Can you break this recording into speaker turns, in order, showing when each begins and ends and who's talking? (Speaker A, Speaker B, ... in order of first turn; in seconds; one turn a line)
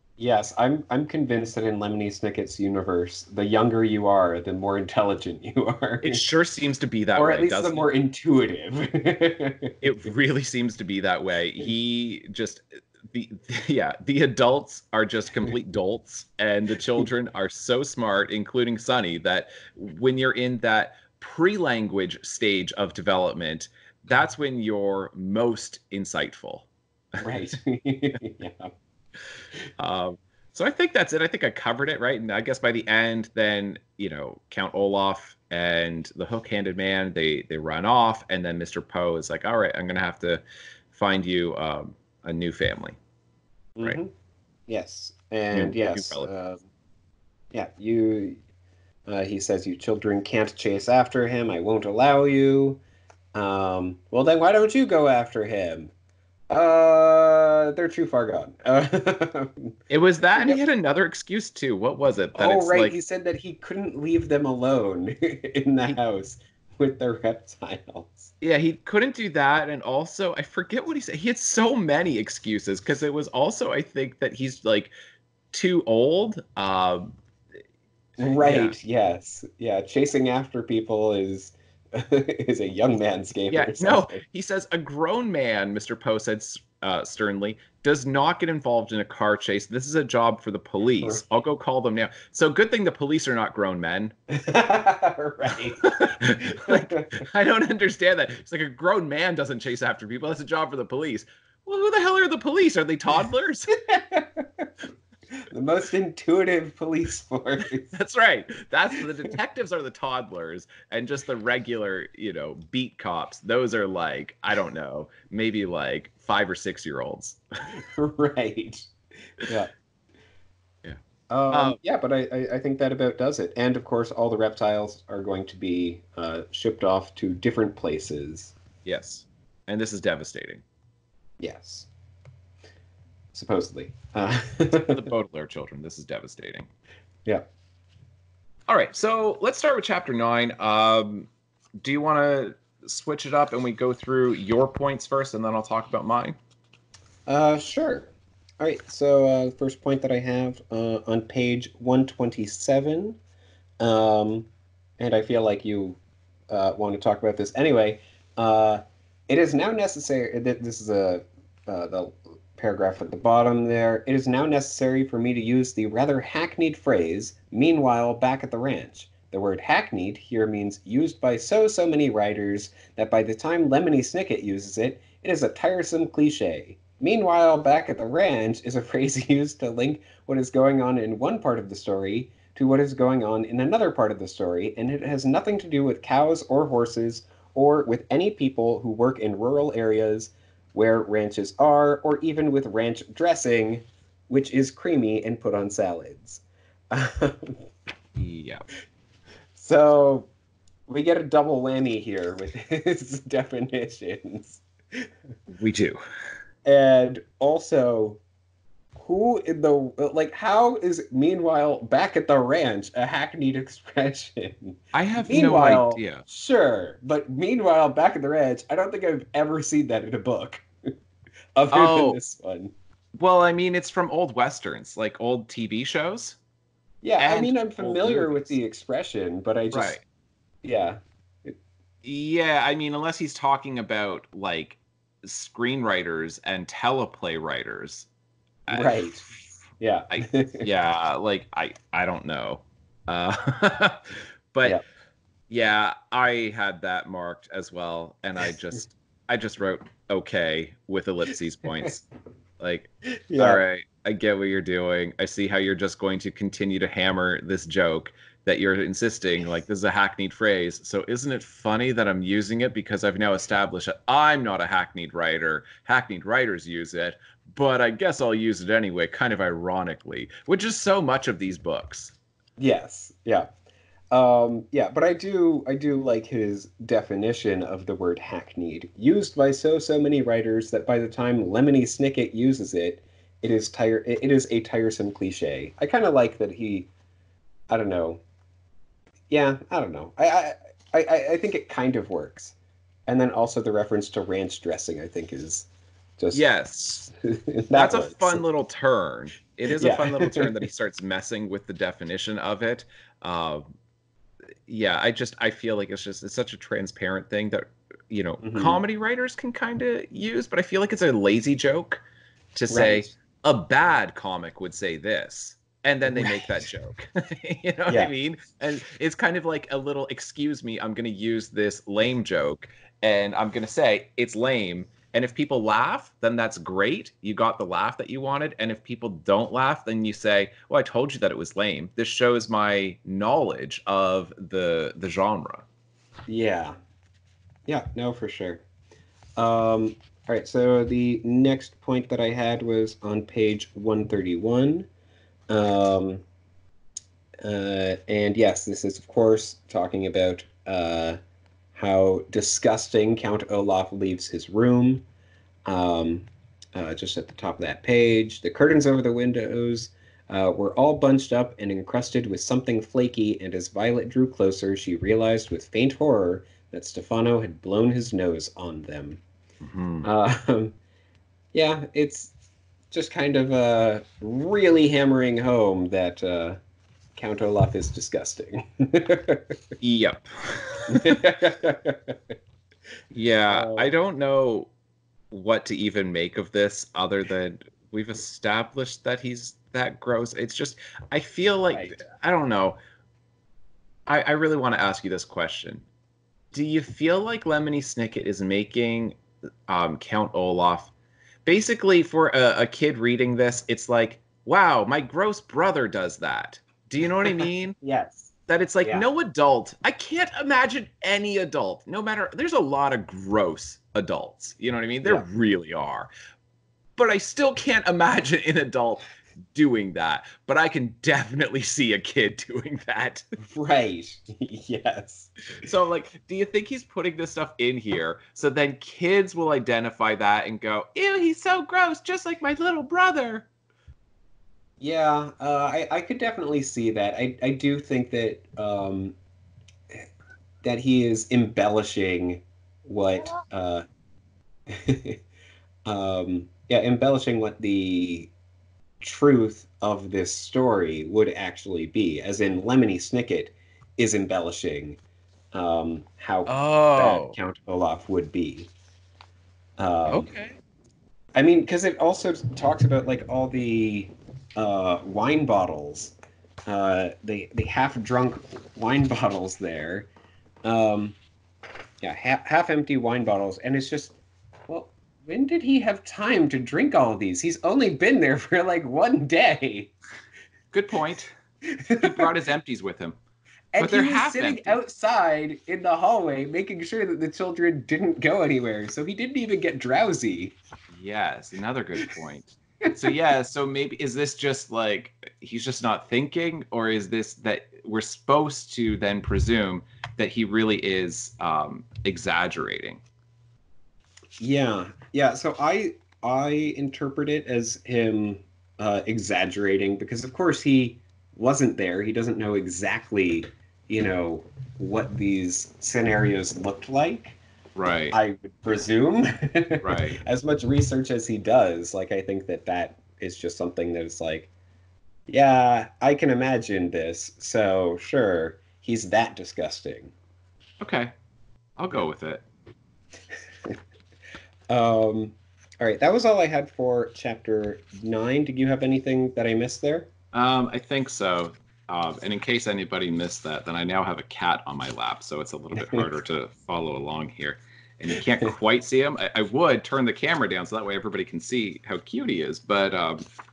Speaker A: 0.2-6.2
Speaker B: 6.0-7.9
Speaker A: 7.2-9.8
Speaker B: 9.8-27.5
Speaker A: 27.2-28.7
Speaker B: 29.8-43.0
Speaker A: 43.8-44.1
Speaker A: 44.7-46.6
Speaker B: 45.5-46.3
Speaker A: 47.5-48.4
Speaker A: 49.1-52.8
Speaker A: 53.3-55.9
Speaker A: 56.5-59.7
Speaker B: 59.9-62.9
Speaker A: 62.4-68.3
Speaker B: 68.4-74.9
Speaker B: 75.5-77.2
Speaker A: 78.2-84.2
Speaker B: 78.4-78.8
Speaker B: 83.5-94.2
Speaker A: 94.3-97.2
Speaker B: 95.8-103.8
Speaker A: 103.8-104.7
Speaker A: 105.5-107.9
Speaker B: 107.9-117.7
Speaker A: 117.8-119.7
Speaker A: 121.3-128.6
Speaker B: 121.5-121.8
Speaker B: 128.8-130.6
Speaker A: 131.4-131.9
Speaker A: 133.3-135.0
Speaker B: 134.7-136.7
Speaker B: 138.7-141.3
Speaker B: 141.8-146.4
Speaker A: 147.3-153.2
Speaker A: 153.8-156.0
Speaker A: 156.5-197.7
Speaker B: 198.2-198.6
Speaker A: 199.6-200.3
Speaker A: 200.9-205.1
Speaker B: 205.5-206.0
Speaker A: 206.7-208.2
Speaker A: 209.0-220.7
Speaker B: 214.9-216.2
Speaker A: 221.6-222.7
Speaker B: 221.7-222.2
Speaker B: 223.2-226.4
Speaker A: 227.0-230.0
Speaker B: 227.2-228.6
Speaker B: 229.7-230.0
Speaker A: 230.6-231.6
Speaker B: 232.0-238.1
Speaker B: 238.7-239.0
Speaker A: 238.7-239.2
Speaker A: 239.8-240.7
Speaker B: 240.1-244.8
Speaker B: 245.5-252.1
Speaker B: 252.6-272.1
Speaker A: 253.3-253.6
Speaker A: 272.6-273.5
Speaker A: 274.1-286.9
Speaker A: 287.7-288.2
Speaker A: 289.3-292.6
Speaker A: 293.1-296.4
Speaker B: 296.3-297.1
Speaker A: 297.0-298.4
Speaker B: 297.7-303.6
Speaker A: 299.8-300.6
Speaker B: 304.7-312.0
Speaker A: 308.4-308.8
Speaker B: 312.6-335.6
Speaker A: 312.7-313.1
Speaker A: 316.1-316.6
Speaker A: 336.3-336.8
Speaker A: 337.7-338.6
Speaker A: 339.4-344.9
Speaker A: 345.5-346.2
Speaker A: 347.4-351.2
Speaker A: 351.8-355.1
Speaker A: 355.7-369.2
Speaker B: 369.6-370.1
Speaker A: 370.0-370.8
Speaker A: 371.5-372.3
Speaker A: 372.9-376.6
Speaker A: 377.1-379.6
Speaker B: 379.8-381.2
Speaker A: 380.9-382.4
Speaker B: 383.1-384.7
Speaker A: 383.5-383.9
Speaker B: 385.3-392.8
Speaker B: 394.1-395.9
Speaker B: 396.5-400.9
Speaker B: 401.5-407.8
Speaker A: 407.8-408.3
Speaker B: 408.5-416.1
Speaker B: 417.0-423.2
Speaker A: 423.5-425.3
Speaker B: 425.6-433.5
Speaker A: 434.8-439.1
Speaker A: 440.6-443.9
Speaker A: 444.7-445.2
Speaker A: 445.9-448.3
Speaker A: 449.0-455.0
Speaker A: 455.5-458.7
Speaker B: 456.5-457.4
Speaker A: 459.8-460.3
Speaker B: 460.1-460.6
Speaker A: 461.4-466.1
Speaker A: 466.7-470.1
Speaker A: 470.6-471.2
Speaker A: 472.0-474.2
Speaker A: 474.7-479.9
Speaker B: 480.7-481.4
Speaker A: 481.7-482.3
Speaker B: 482.0-483.2
Speaker A: 483.7-490.6
Speaker B: 483.8-484.8
Speaker B: 490.9-503.0
Speaker A: 504.4-517.4
Speaker B: 517.8-518.2
Speaker A: 518.1-524.5
Speaker B: 519.8-520.2
Speaker A: 525.3-530.1
Speaker B: 530.8-531.1
Speaker B: 531.8-532.4
Speaker A: 534.7-540.1
Speaker B: 540.3-553.2
Speaker A: 545.8-546.0